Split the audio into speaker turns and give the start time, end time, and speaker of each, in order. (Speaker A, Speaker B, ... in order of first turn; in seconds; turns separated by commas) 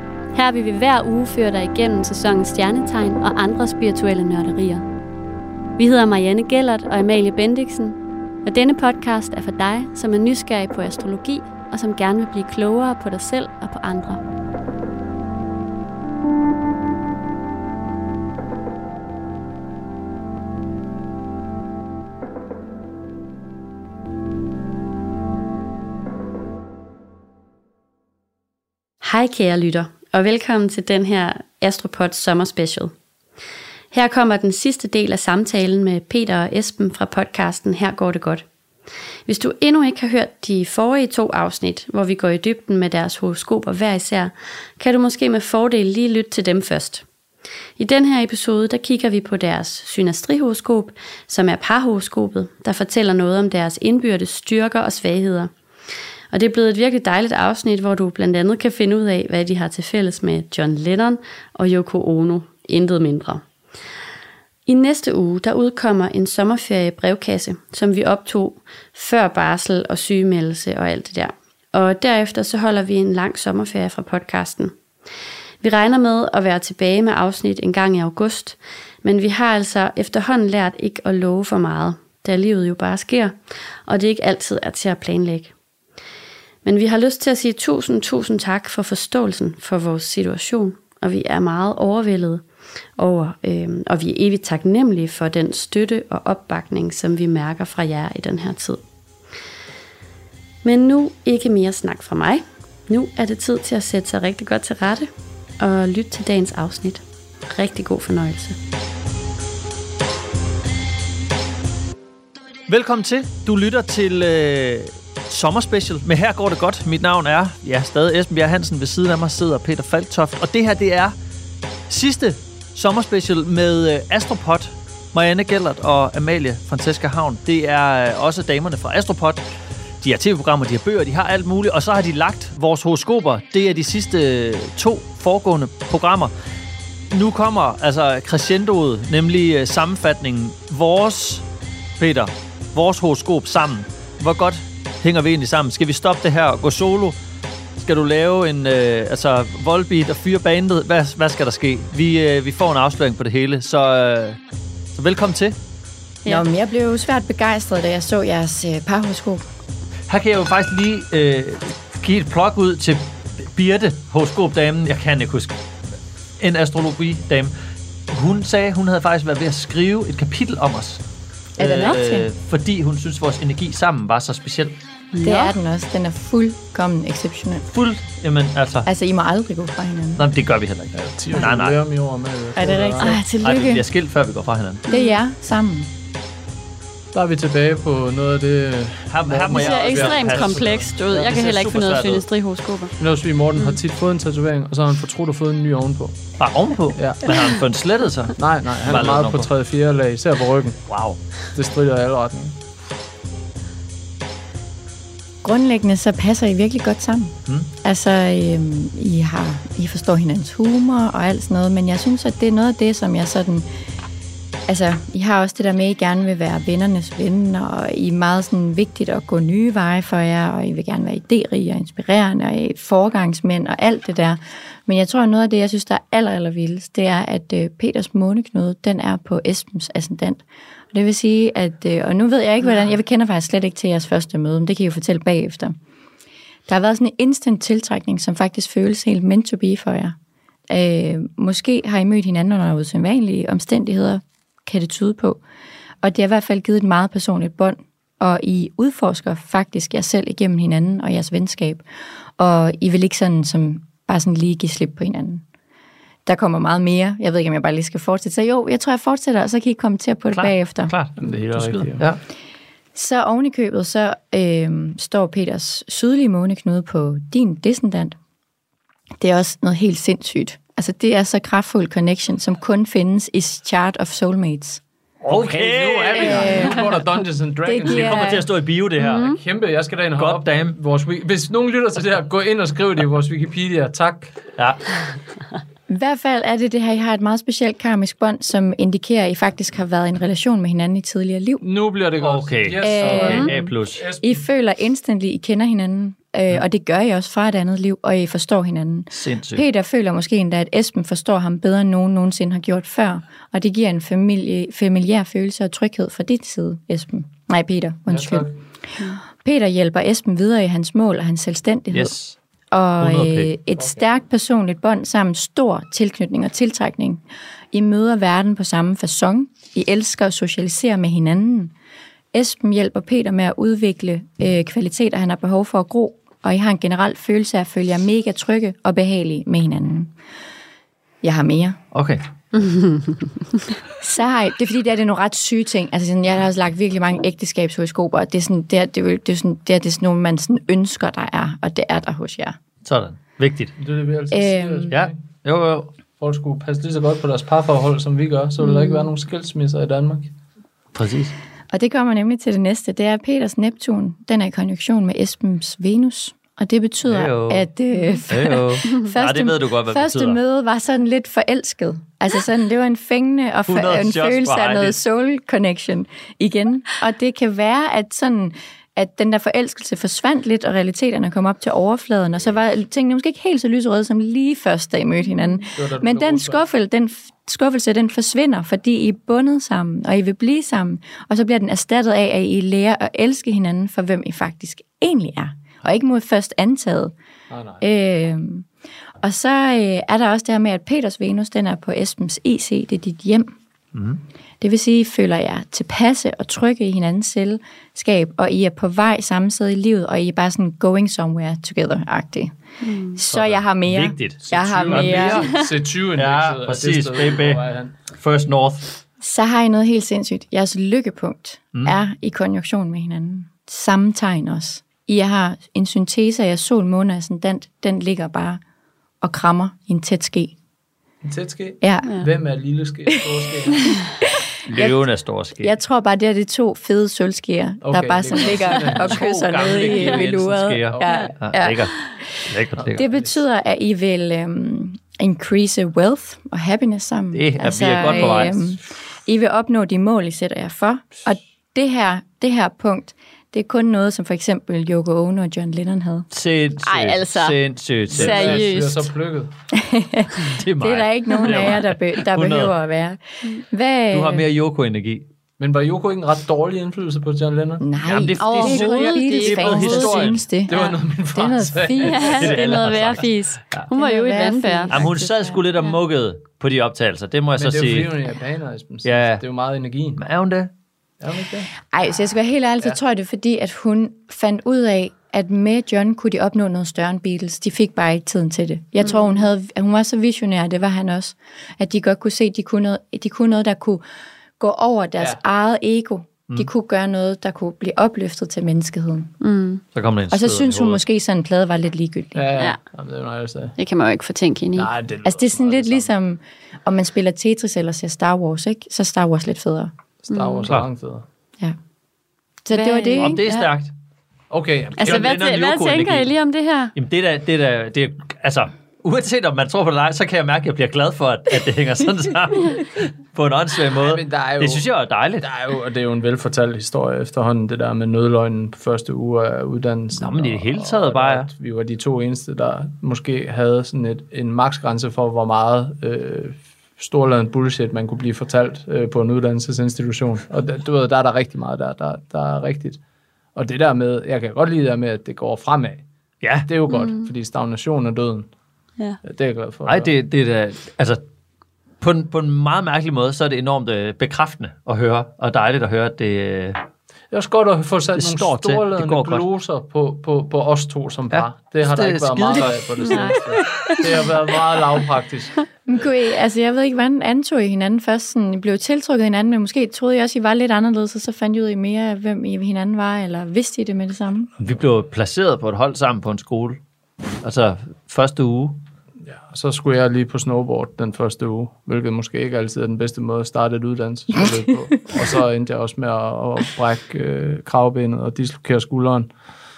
Speaker A: 0.3-4.8, Speaker A: 5.8-14.2, Speaker A: 29.0-32.9, Speaker A: 33.9-38.5, Speaker A: 39.2-47.0, Speaker A: 47.8-55.5, Speaker A: 56.3-63.4, Speaker A: 64.7-74.8, Speaker A: 75.6-85.5, Speaker A: 86.6-92.5, Speaker A: 93.0-98.8, Speaker A: 100.6-108.6, Speaker B: 112.7-121.1, Speaker B: 121.9-129.4, Speaker B: 130.0-136.3, Speaker B: 137.1-141.4, Speaker B: 142.0-147.2, Speaker B: 147.8-154.4, Speaker B: 154.9-155.6, Speaker C: 156.2-159.4, Speaker B: 160.1-165.6, Speaker B: 166.4-167.5, Speaker B: 168.1-171.0, Speaker C: 171.6-172.3, Speaker B: 171.6-174.8, Speaker A: 175.1-175.5, Speaker C: 175.2-177.6, Speaker B: 177.7-178.9, Speaker C: 178.8-180.2, Speaker B: 180.2-181.8, Speaker D: 180.9-183.2, Speaker C: 182.6-183.2, Speaker A: 182.9-183.8, Speaker B: 183.4-184.8, Speaker A: 184.9-185.2, Speaker C: 184.9-185.9, Speaker D: 187.1-191.2, Speaker B: 189.1-192.2, Speaker A: 189.5-192.9, Speaker D: 193.0-196.2, Speaker B: 196.4-199.5, Speaker D: 196.9-197.3, Speaker D: 198.3-200.8, Speaker B: 200.9-201.2, Speaker D: 201.5-202.6, Speaker C: 205.4-213.7, Speaker C: 214.7-235.8, Speaker C: 236.7-240.2, Speaker C: 240.7-245.4, Speaker C: 246.0-251.8, Speaker C: 252.4-255.4, Speaker C: 256.2-260.9, Speaker B: 260.3-262.2, Speaker D: 261.2-262.1, Speaker C: 262.9-268.1, Speaker C: 269.2-274.8, Speaker B: 275.2-276.7, Speaker D: 275.2-278.4, Speaker C: 276.2-277.0, Speaker C: 277.6-278.4, Speaker B: 277.8-279.4, Speaker A: 279.0-279.4, Speaker D: 279.2-284.4, Speaker B: 280.1-280.8, Speaker B: 284.6-284.8, Speaker C: 285.9-291.6, Speaker D: 291.6-294.4, Speaker B: 292.2-294.0, Speaker C: 292.8-293.7, Speaker C: 294.2-308.5, Speaker B: 299.1-299.6, Speaker D: 308.1-308.6, Speaker C: 309.3-312.1, Speaker B: 311.9-312.4, Speaker C: 312.7-321.7, Speaker B: 313.0-313.5, Speaker D: 313.8-314.0, Speaker C: 322.3-330.1, Speaker C: 331.2-331.8, Speaker B: 331.9-332.2, Speaker A: 332.5-333.6, Speaker C: 334.0-342.6, Speaker B: 342.8-343.7, Speaker D: 343.8-345.2, Speaker C: 344.3-344.9, Speaker B: 344.9-345.9, Speaker D: 346.2-350.3, Speaker A: 348.6-349.1, Speaker B: 350.9-351.3, Speaker C: 351.7-387.1, Speaker B: 357.0-357.7, Speaker B: 358.3-360.4, Speaker B: 363.7-365.0, Speaker D: 375.7-376.6, Speaker D: 387.5-387.8, Speaker C: 387.8-388.7, Speaker C: 389.2-393.5, Speaker B: 393.9-394.2, Speaker C: 394.6-402.5, Speaker A: 402.8-403.2, Speaker C: 403.1-405.4, Speaker B: 403.3-407.6, Speaker D: 404.5-407.9, Speaker B: 408.1-408.9, Speaker C: 409.2-418.6, Speaker C: 419.2-420.5, Speaker D: 421.2-423.9, Speaker C: 421.8-422.2, Speaker C: 423.9-425.0, Speaker B: 424.7-425.7, Speaker C: 425.6-446.3, Speaker D: 427.8-429.2, Speaker B: 428.9-433.0, Speaker D: 430.9-431.3, Speaker D: 432.8-433.3, Speaker B: 437.3-438.7, Speaker B: 446.3-448.7, Speaker A: 446.8-447.6, Speaker D: 448.1-449.5, Speaker A: 448.1-449.1, Speaker C: 449.7-454.4, Speaker B: 450.5-452.7, Speaker B: 454.1-455.2, Speaker D: 455.6-457.8, Speaker C: 457.8-462.4, Speaker B: 458.0-460.4, Speaker A: 458.5-460.2, Speaker D: 460.7-462.8, Speaker A: 462.0-465.1, Speaker B: 462.3-463.3, Speaker C: 463.9-465.6, Speaker B: 464.9-468.1, Speaker D: 467.6-470.2, Speaker B: 469.0-469.4, Speaker B: 470.2-470.7, Speaker D: 471.2-471.7, Speaker C: 471.9-484.0, Speaker C: 484.6-489.3, Speaker A: 489.4-489.8, Speaker B: 489.9-491.0, Speaker C: 490.3-492.5, Speaker D: 492.3-493.7, Speaker A: 493.8-494.9, Speaker D: 494.8-496.1, Speaker C: 495.2-499.9, Speaker D: 500.2-501.2, Speaker A: 500.3-500.7, Speaker C: 502.6-503.5, Speaker A: 502.7-503.6, Speaker B: 503.2-503.9, Speaker D: 504.5-505.4, Speaker A: 505.0-506.9, Speaker B: 505.0-506.3, Speaker B: 506.9-515.5, Speaker D: 514.0-514.9, Speaker D: 515.4-533.0, Speaker B: 520.2-521.5, Speaker D: 533.5-536.0, Speaker B: 536.4-536.7, Speaker D: 536.6-538.5, Speaker A: 536.9-537.3, Speaker D: 539.2-540.1, Speaker B: 539.9-541.2, Speaker B: 542.0-546.8, Speaker D: 547.3-555.5, Speaker B: 548.1-549.4, Speaker B: 551.3-553.4, Speaker A: 553.0-554.2, Speaker C: 555.9-564.5, Speaker B: 564.6-566.8, Speaker B: 567.4-568.8, Speaker D: 569.2-579.3